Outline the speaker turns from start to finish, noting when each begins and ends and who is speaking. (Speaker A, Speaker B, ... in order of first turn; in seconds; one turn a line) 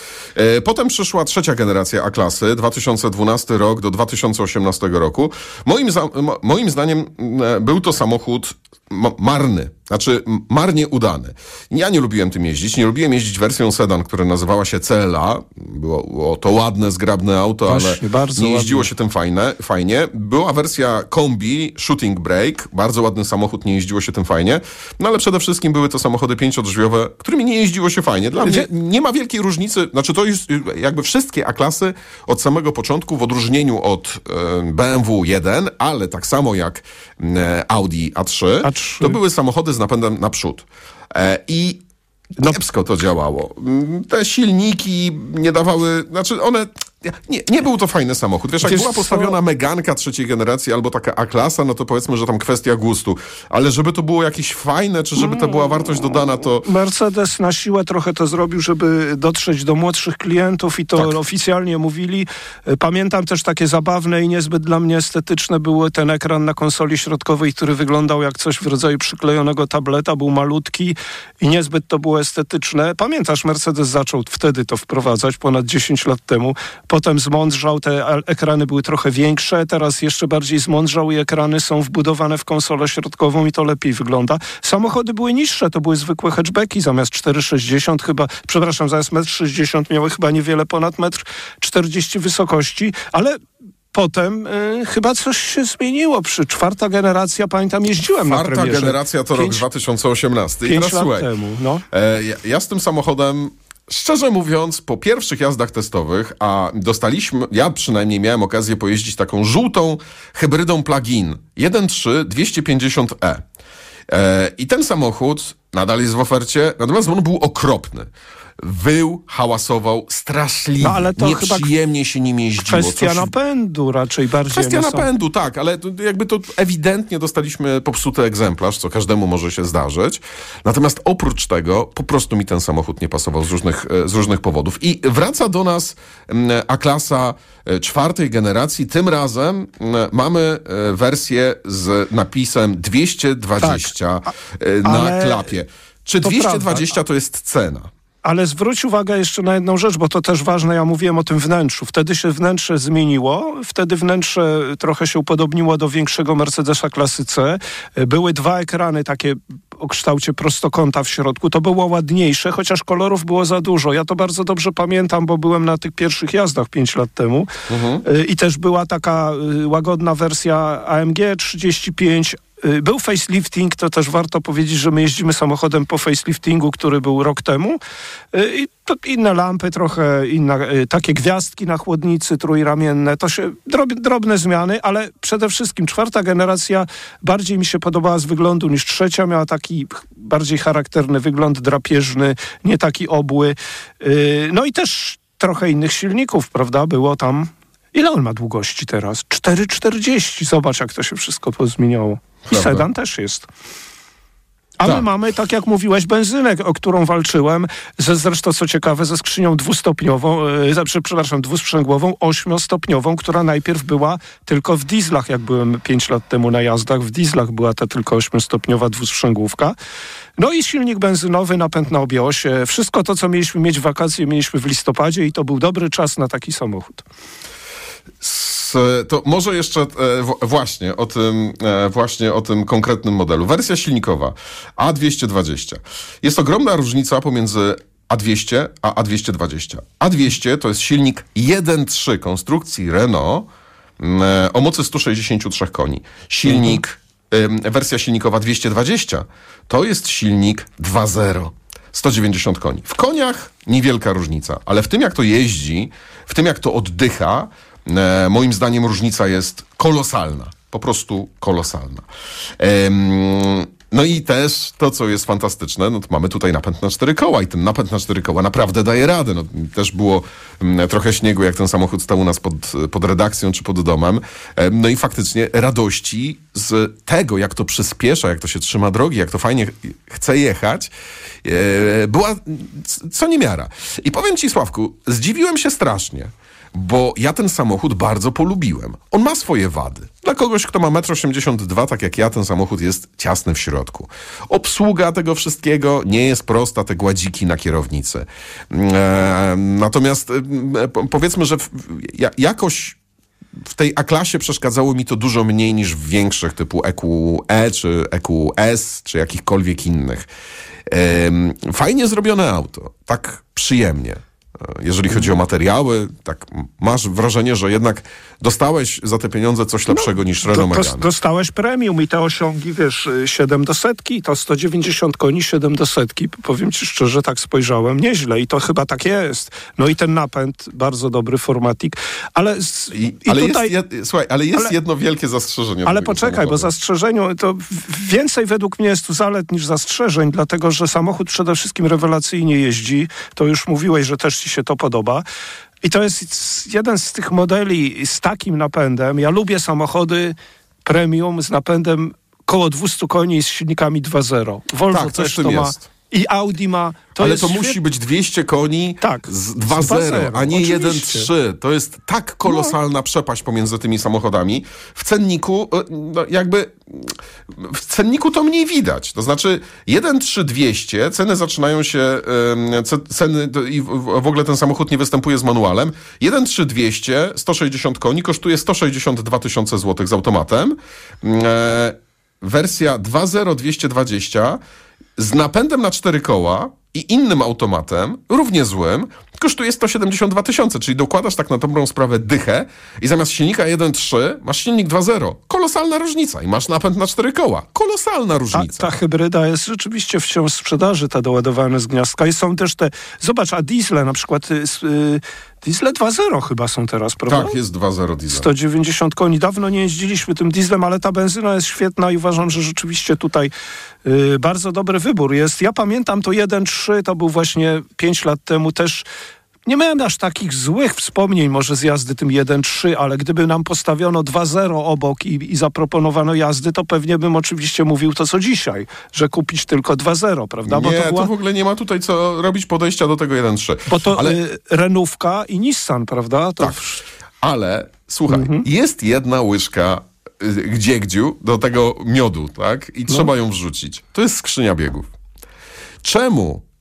Speaker A: 0.4-41.8
Speaker B: 17.7-18.9
Speaker B: 38.6-39.2
Speaker A: 42.4-56.7
Speaker B: 48.6-49.4
Speaker B: 55.2-55.6
Speaker B: 56.6-93.4
Speaker B: 93.9-99.6
Speaker A: 98.2-101.3
Speaker B: 100.7-101.8
Speaker A: 101.9-113.4
Speaker A: 114.1-118.1
Speaker A: 118.6-123.3
Speaker B: 120.8-121.7
Speaker B: 122.6-125.1
Speaker A: 124.5-147.9
Speaker B: 143.6-143.9
Speaker B: 144.8-145.5
Speaker B: 146.2-146.9
Speaker B: 148.2-167.5
Speaker A: 167.7-168.0
Speaker B: 168.0-177.8
Speaker B: 178.3-203.5
Speaker A: 202.5-202.8
Speaker B: 204.8-219.8
Speaker B: 220.4-227.1
Speaker A: 228.2-243.5
Speaker A: 244.0-262.1
Speaker B: 246.5-246.8
Speaker A: 262.6-280.9
Speaker A: 281.4-303.0
Speaker A: 303.7-310.3
Speaker A: 310.9-321.1
Speaker B: 319.9-333.7
Speaker A: 332.9-336.7
Speaker B: 335.9-345.2
Speaker B: 345.8-357.8
Speaker A: 354.9-355.9
Speaker A: 357.2-384.6
Speaker B: 359.0-361.3
Speaker B: 362.5-362.8
Speaker A: 385.2-398.9
Speaker B: 398.5-407.6
Speaker A: 407.3-408.5
Speaker B: 408.3-413.5
Speaker B: 414.1-419.1
Speaker B: 419.7-431.3
Speaker A: 430.7-434.4
Speaker B: 433.9-437.0
Speaker A: 437.4-445.1
Speaker B: 438.3-438.6
Speaker A: 446.0-446.6